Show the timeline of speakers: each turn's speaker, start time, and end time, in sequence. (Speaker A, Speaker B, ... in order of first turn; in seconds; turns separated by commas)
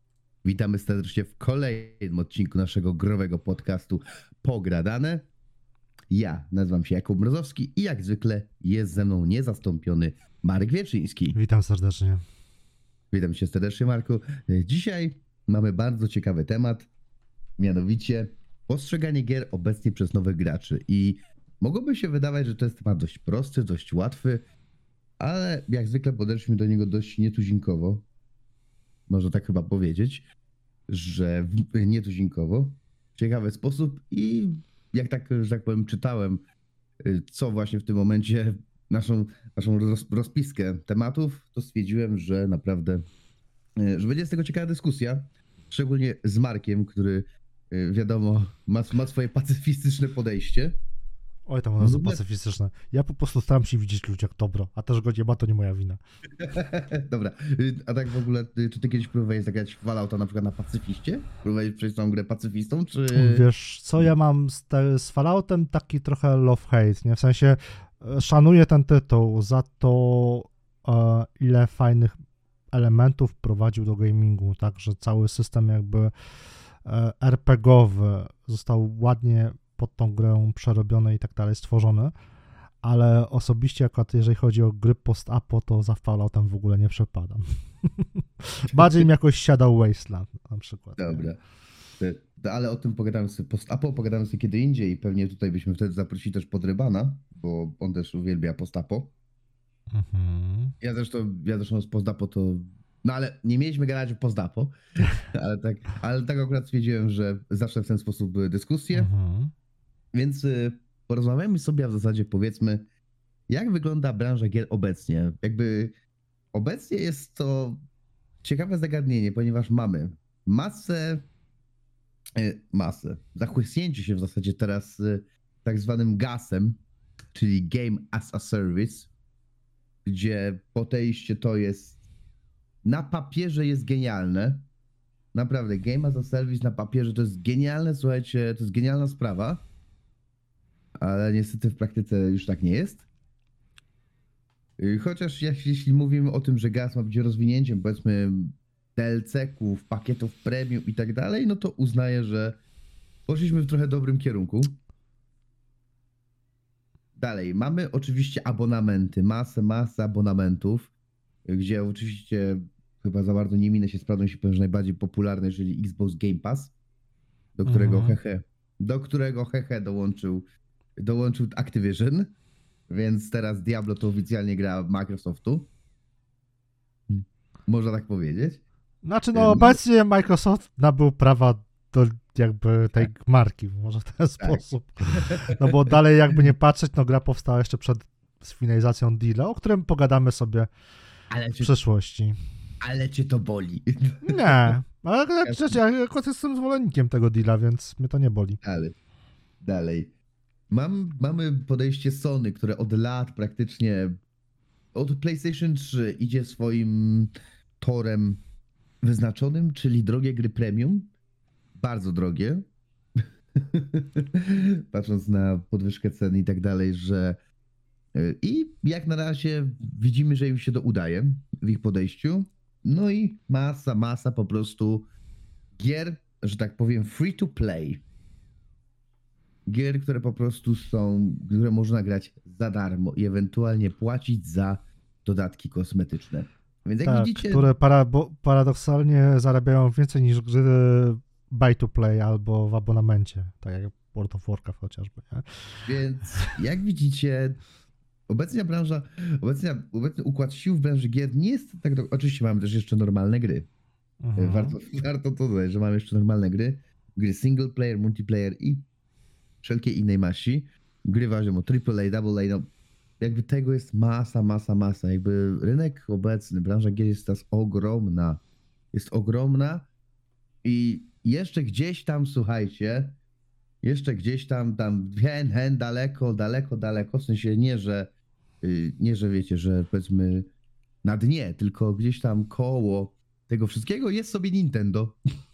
Speaker A: 0.4-5.2, Speaker A: 6.1-11.4, Speaker B: 11.3-12.2, Speaker A: 13.1-16.9, Speaker A: 17.6-24.4, Speaker A: 25.2-28.0, Speaker A: 29.1-30.2, Speaker A: 30.9-36.4, Speaker A: 37.0-43.0, Speaker A: 43.8-50.7, Speaker B: 51.5-56.0, Speaker A: 51.8-52.2, Speaker A: 56.4-63.5, Speaker B: 63.1-72.2, Speaker B: 72.7-76.1, Speaker B: 76.8-82.1, Speaker B: 82.8-91.2, Speaker A: 88.7-89.0, Speaker A: 91.0-91.4, Speaker A: 92.0-99.1, Speaker B: 99.9-100.7, Speaker A: 100.8-109.1, Speaker B: 108.9-109.5, Speaker A: 110.1-112.8, Speaker A: 113.5-115.9, Speaker A: 116.5-117.8, Speaker A: 118.4-121.2, Speaker A: 122.3-126.8, Speaker A: 127.3-129.1, Speaker A: 130.0-132.0, Speaker A: 132.8-134.7, Speaker A: 135.3-139.6, Speaker A: 141.0-143.0, Speaker A: 144.8-152.6, Speaker A: 153.3-154.8, Speaker A: 157.2-160.9, Speaker A: 161.4-166.7, Speaker A: 167.6-170.4, Speaker B: 167.7-168.2, Speaker A: 171.0-172.3, Speaker A: 172.9-175.7, Speaker A: 177.1-178.6, Speaker B: 179.0-190.7, Speaker A: 179.3-179.8, Speaker A: 185.1-185.9, Speaker A: 191.3-191.7, Speaker B: 191.6-192.4, Speaker A: 192.8-194.8, Speaker B: 194.2-198.6, Speaker A: 195.4-195.8, Speaker A: 198.6-198.9, Speaker A: 199.6-200.1, Speaker A: 200.7-204.2, Speaker A: 204.9-208.4, Speaker A: 209.0-211.1, Speaker A: 211.8-212.6, Speaker A: 213.6-217.4, Speaker A: 218.1-225.1, Speaker A: 225.8-228.0, Speaker A: 229.7-237.7, Speaker B: 237.0-245.9, Speaker A: 245.8-247.6, Speaker A: 248.3-253.7, Speaker B: 254.2-254.8, Speaker A: 254.4-258.8, Speaker A: 259.6-262.7, Speaker A: 263.2-268.4, Speaker A: 268.9-269.9, Speaker A: 270.6-273.1, Speaker A: 273.8-278.1, Speaker A: 278.6-280.5, Speaker A: 281.0-285.2